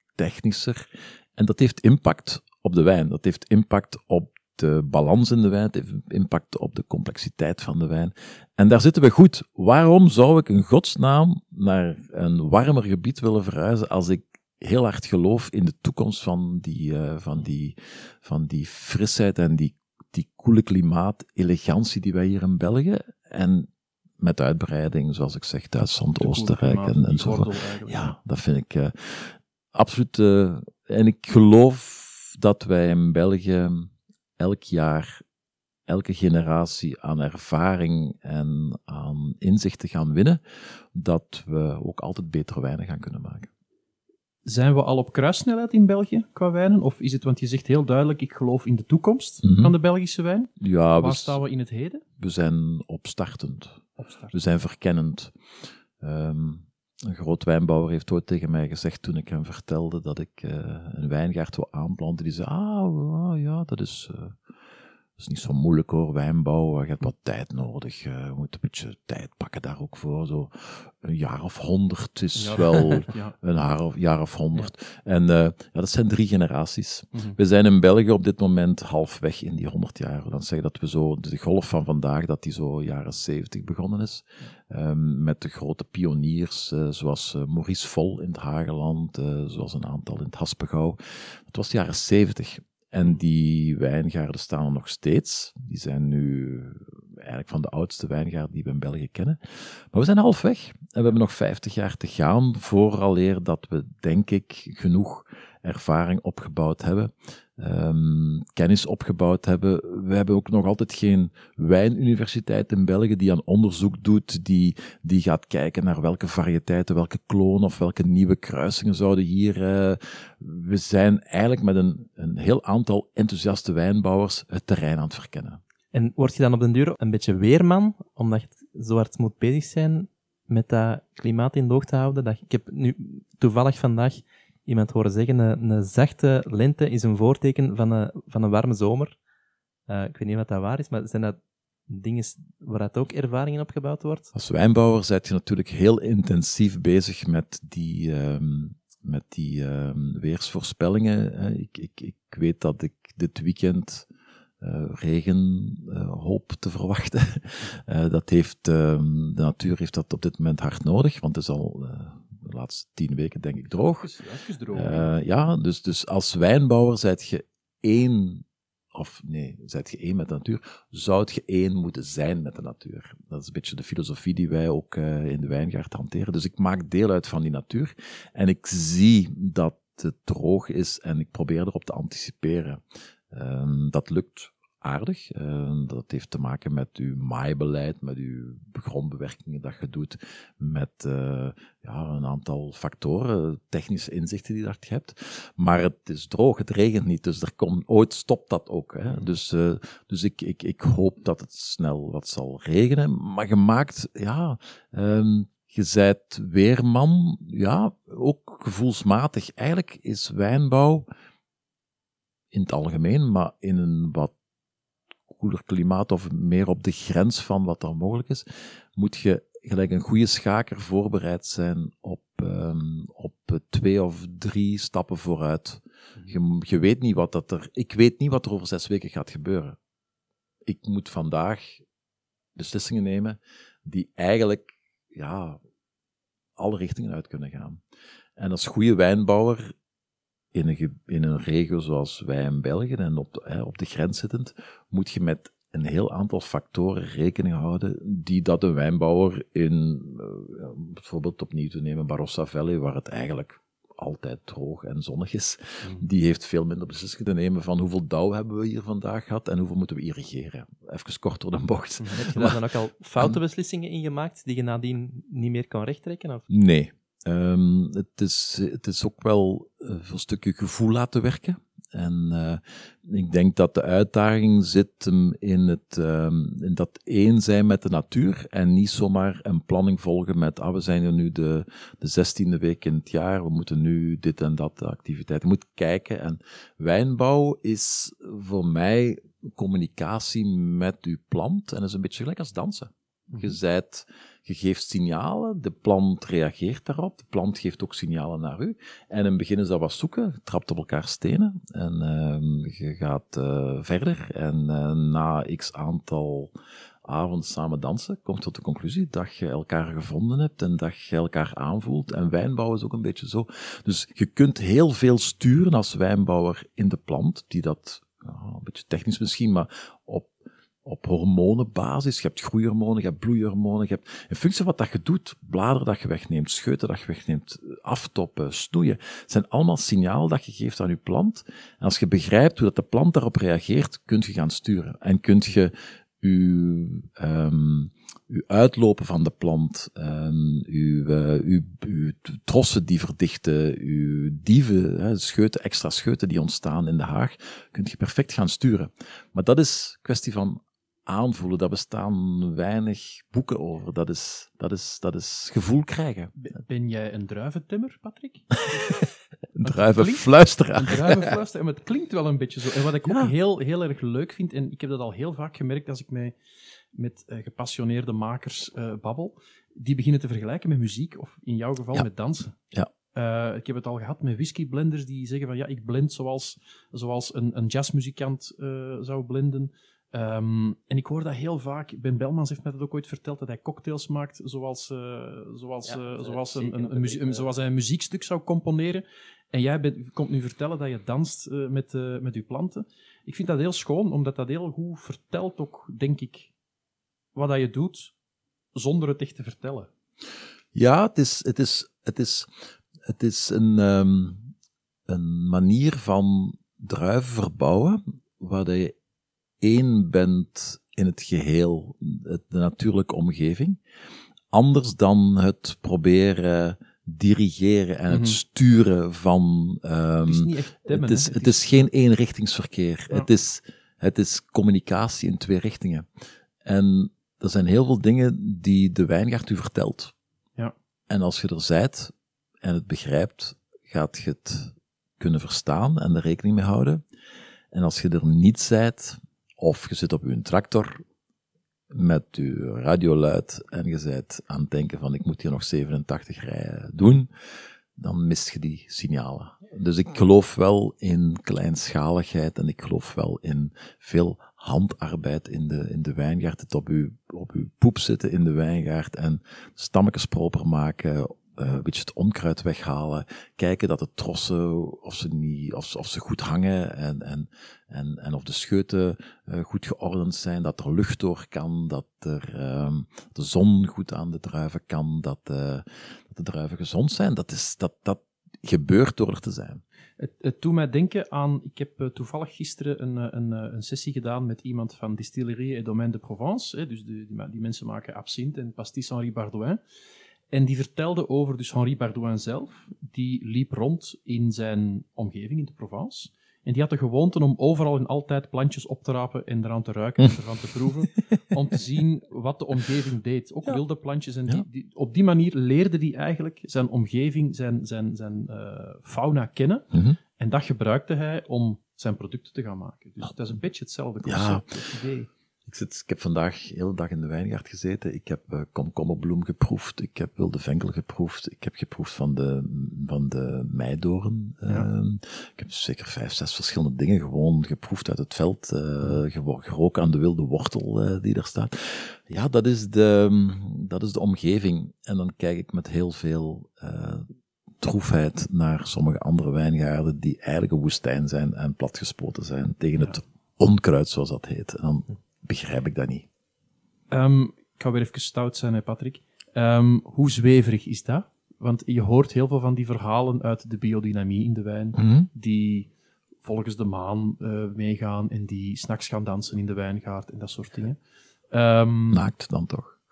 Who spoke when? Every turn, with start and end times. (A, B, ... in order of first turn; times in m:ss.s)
0:00.2-0:35.2 A
0:26.2-0:28.1 B
0:35.9-0:40.4 A
0:40.9-0:43.5 A
0:44.4-0:52.0 B
0:49.4-0:49.7 A
0:50.6-0:51.4 A
0:52.2-0:53.8 A
0:54.0-0:54.4 B
0:54.3-0:55.3 A
0:56.0-1:04.4 A
1:05.2-2:05.6 A
1:12.4-1:13.4 B
2:05.9-2:19.2 C
2:19.9-2:24.3 C
2:24.3-2:34.1 A
2:34.6-2:44.1 A
2:43.8-2:45.2 B
2:44.7-3:31.1 A
3:32.5-3:34.3 A
3:35.3-3:49.8 A
3:50.6-3:51.8 A
3:52.6-3:55.6 A
3:56.6-3:57.8 A
3:58.4-3:59.7 A
4:00.5-4:22.6 A
4:22.0-4:22.3 B
4:22.1-4:26.5 C
4:26.5-5:06.5 A
4:53.3-4:53.6 B
5:07.0-5:20.3 A
5:20.8-5:56.3 A
5:56.4-5:59.0 B
5:58.7-6:01.3 A
5:59.6-6:06.3 B
6:03.0-6:03.3 A
6:07.0-6:12.6 B
6:13.1-6:36.5 B
6:25.9-6:27.4 C
6:37.4-6:38.1 B
6:38.8-6:39.9 B
6:40.7-6:42.5 A
6:43.1-6:44.5 A
6:45.1-6:49.0 A
6:49.6-6:53.8 A
6:54.5-7:06.1 A
6:58.1-6:58.4 B
7:00.2-7:01.9 B
7:06.6-7:10.1 A
7:11.1-7:17.0 A
7:17.7-7:21.0 A
7:21.9-7:27.3 A
7:28.0-7:59.8 A
8:00.2-8:09.8 B
8:10.5-8:35.3 B
8:34.2-8:34.8 A
8:35.7-8:57.3 A
8:57.8-9:06.3 A
9:07.1-9:15.9 B
9:15.0-9:15.3 A
9:16.4-9:21.0 B
9:21.5-9:22.3 B
9:22.1-9:23.0 A